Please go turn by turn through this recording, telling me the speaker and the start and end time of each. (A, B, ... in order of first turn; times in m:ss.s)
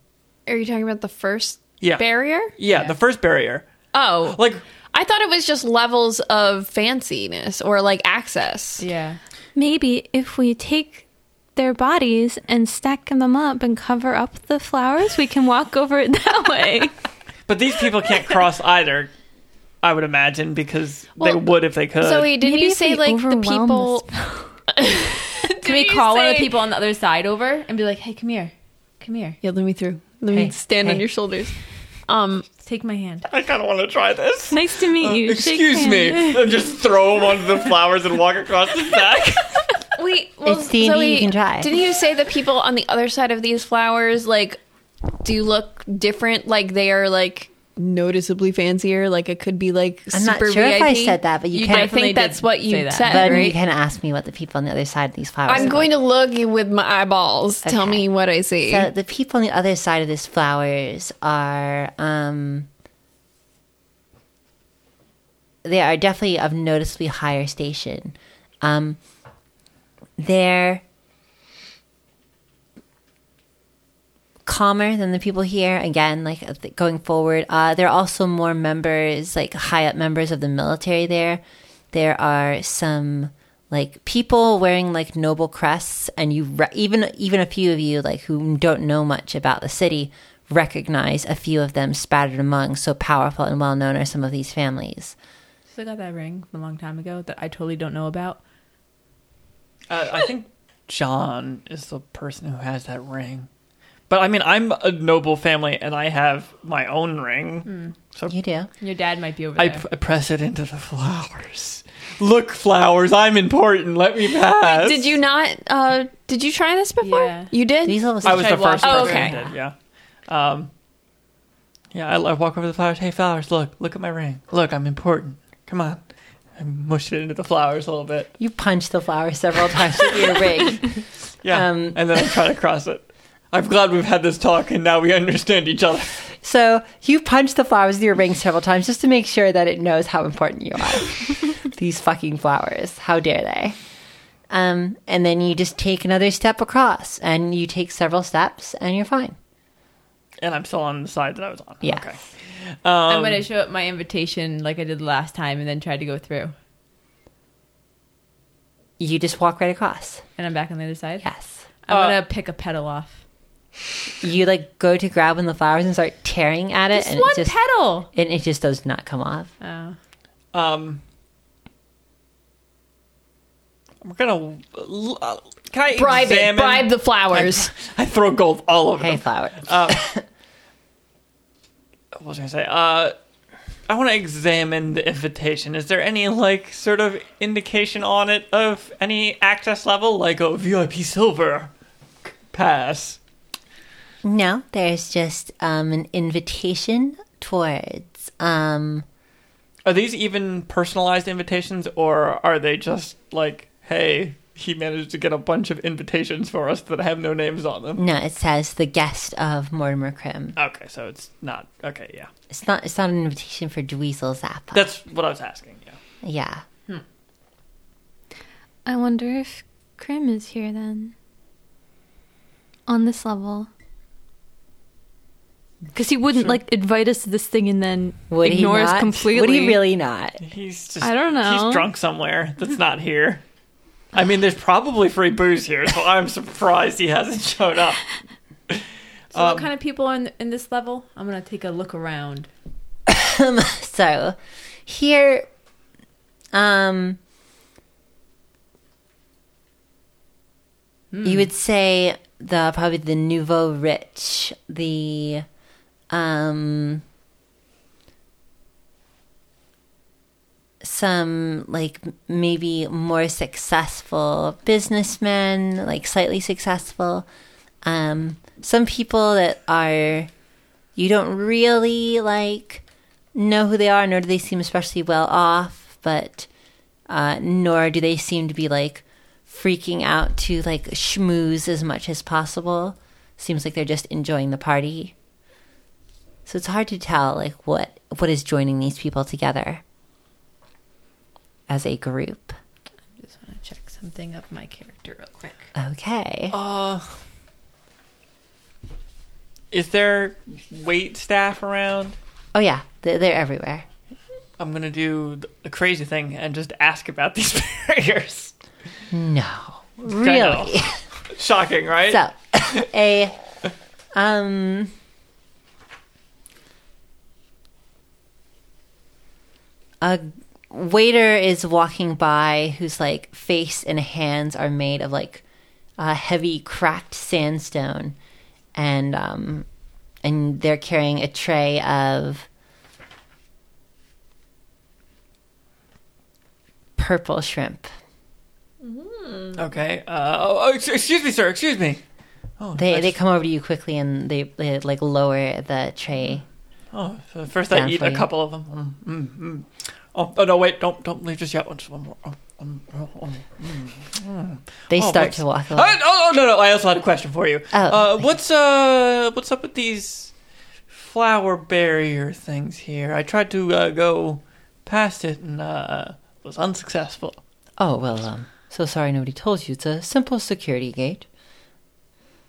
0:00.5-0:02.5 A
0:01.8-0:03.6 B
0:02.7-0:02.9 C
0:03.9-0:04.4 A
0:04.3-0:04.6 B
0:04.9-0:08.8 A
0:08.8-0:09.2 C
0:09.6-0:16.9 D
0:17.5-0:19.1 B
0:19.8-0:22.3 B
0:21.2-0:21.4 A
0:22.0-0:24.0 A
0:22.4-0:24.6 D
0:24.7-0:26.5 A
0:25.6-0:29.4 C
0:29.4-0:31.6 A
0:30.3-0:31.0 E
0:32.1-0:32.5 A
0:32.6-0:33.3 C
0:33.3-0:39.7 B
0:34.5-0:36.4 D
0:40.0-0:44.6 A
0:40.4-0:41.7 E
0:45.2-0:53.6 A
0:50.1-0:51.9 E
0:51.5-0:53.5 C
0:53.1-0:55.9 E
0:55.5-0:58.9 A
0:57.6-0:58.1 E
0:58.6-1:02.7 E
1:05.6-1:09.0 E
1:10.2-1:10.8 E
1:14.5-1:35.2 E
1:35.7-1:38.4 C
1:39.9-1:43.5 B
1:44.1-1:48.4 B
1:47.7-1:47.9 C
1:48.3-1:48.7 E
1:48.8-1:49.8 C
1:49.6-1:55.2 B
1:54.6-1:58.2 A
1:57.0-1:57.5 C
1:57.8-1:59.3 E
1:58.2-1:59.8 B
1:58.2-1:59.3 C
1:58.8-1:59.4 A
2:00.3-2:00.7 B
2:01.9-2:06.0 B
2:06.6-2:08.3 B
2:08.4-2:11.0 E
2:11.4-2:16.2 B
2:11.5-2:12.2 E
2:16.4-2:23.8 E
2:24.5-2:29.4 E
2:30.4-2:32.2 B
2:31.8-2:32.1 E
2:32.8-2:33.5 B
2:33.1-2:36.5 C
2:39.0-2:40.2 E
2:40.4-2:41.3 C
2:41.2-2:41.6 E
2:41.9-2:43.2 C
2:41.9-2:42.2 B
2:44.2-2:47.6 E
2:46.9-2:48.1 C
2:48.1-2:49.5 E
2:49.6-2:50.0 C
2:50.5-2:51.0 B
2:54.0-3:00.1 B
2:55.9-2:57.7 A
2:59.0-3:00.2 E
3:02.2-3:03.2 B
3:03.9-3:11.7 B
3:12.2-3:13.2 B
3:14.2-3:19.0 E
3:19.9-3:28.0 B
3:28.0-3:30.6 E
3:30.6-3:32.3 B
3:32.5-3:34.9 E
3:34.7-3:36.0 B
3:36.2-3:36.6 E
3:38.9-3:41.1 D
3:42.9-3:43.7 D
3:45.9-3:49.8 D
3:48.3-3:50.4 E
3:50.4-3:53.4 B
3:51.0-3:51.9 D
3:54.1-3:58.2 B
3:58.7-3:59.7 B
3:59.3-4:02.5 C
4:03.1-4:05.5 E
4:06.5-4:07.2 E
4:11.1-4:11.5 C
4:11.2-4:15.5 E
4:16.1-4:17.0 E
4:20.8-4:27.3 E
4:27.8-4:30.3 E
4:31.0-4:32.8 E
4:33.4-4:36.5 E
4:37.1-4:45.1 E
4:46.5-4:49.8 E
4:51.7-4:52.6 E
4:53.2-4:55.7 C
4:55.8-4:56.6 E
4:56.5-4:57.2 B
4:59.7-5:02.2 B
5:02.5-5:03.9 E
5:04.6-5:08.5 B
5:09.1-5:11.0 E
5:10.1-5:10.8 B
5:11.3-5:12.2 B
5:12.1-5:13.4 E
5:14.2-5:14.9 E
5:20.0-5:25.4 E
5:26.0-5:28.2 E
5:28.8-5:29.7 E
5:30.2-5:32.5 E
5:37.0-5:37.9 E
5:38.8-5:39.6 A
5:39.6-5:42.0 B
5:42.6-5:43.2 B
5:42.8-5:46.4 E
5:46.9-6:00.3 B
5:47.7-5:48.3 E
5:54.9-5:56.0 E
5:57.7-5:58.3 E
6:00.9-6:07.4 B
6:07.8-6:11.3 E